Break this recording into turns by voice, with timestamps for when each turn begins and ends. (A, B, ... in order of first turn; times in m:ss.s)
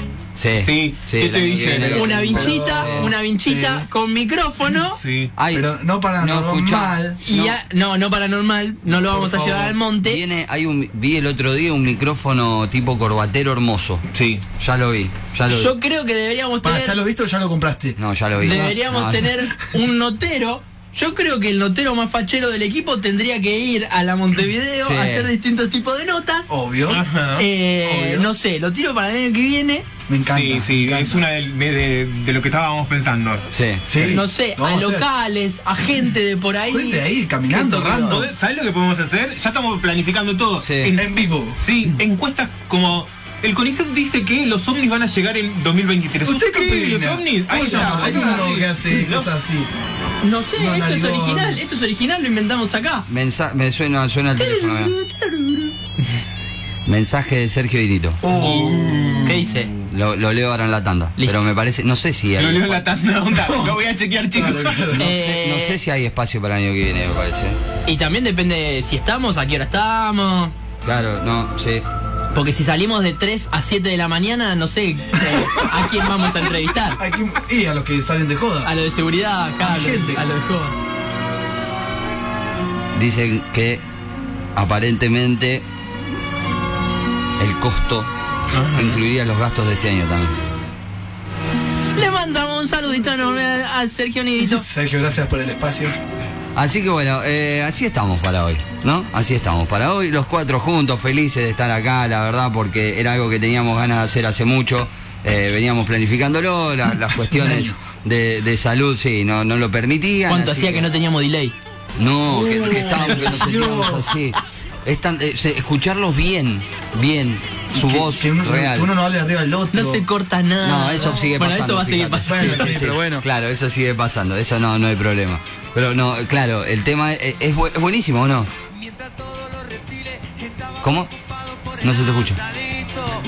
0:00.4-0:03.1 A
0:00.6-0:02.1 B
0:01.8-0:03.9 C
0:01.9-0:05.0 D
0:05.0-0:05.3 B
0:05.4-0:07.6 A
0:05.5-0:07.2 C
0:07.2-0:10.2 D
0:08.9-0:09.8 C
0:10.0-0:14.0 A
0:14.1-0:14.4 B
0:14.6-0:15.7 A
0:15.5-0:17.0 D
0:16.6-0:18.8 C
0:18.0-0:19.3 A
0:18.4-0:26.5 D
0:24.8-0:25.3 A
0:26.5-0:27.0 C
0:26.9-0:27.4 B
0:27.4-0:29.9 D
0:27.8-0:28.3 C
0:30.1-0:31.2 C
0:30.2-0:34.2 B
0:33.5-0:33.8 A
0:33.8-0:35.1 C
0:34.1-0:38.3 D
0:36.7-0:38.3 C
0:38.1-0:49.3 B
0:40.6-0:40.9 A
0:40.9-0:41.6 C
0:46.2-0:49.7 C
0:50.2-0:53.1 D
0:50.6-0:51.6 C
0:53.1-0:54.9 A
0:54.4-0:55.7 D
0:56.8-0:58.5 A
0:58.2-0:59.4 C
0:58.3-0:59.9 B
0:59.2-0:59.7 D
0:59.9-1:02.8 A
1:01.2-1:01.5 D
1:02.4-1:04.9 B
1:03.4-1:03.8 C
1:04.3-1:05.2 C
1:04.9-1:07.6 A
1:05.0-1:05.8 D
1:07.8-1:10.5 D
1:10.8-1:11.8 A
1:12.3-1:17.0 D
1:15.2-1:16.2 C
1:16.8-1:18.7 C
1:18.6-1:20.8 D
1:19.6-1:20.3 C
1:22.9-1:23.8 A
1:24.5-1:25.6 A
1:27.4-1:28.1 A
1:28.5-1:29.0 B
1:28.7-1:30.4 A
1:31.9-1:34.6 D
1:34.4-1:36.0 C
1:36.5-1:50.9 A
1:47.1-1:47.8 C
1:50.3-1:51.6 D
1:52.0-1:58.9 A
1:52.3-1:54.1 C
1:57.7-2:00.0 C
1:59.7-2:02.8 D
2:00.6-2:08.5 A
2:02.2-2:03.2 C
2:10.8-2:11.1 A
2:11.8-2:12.4 A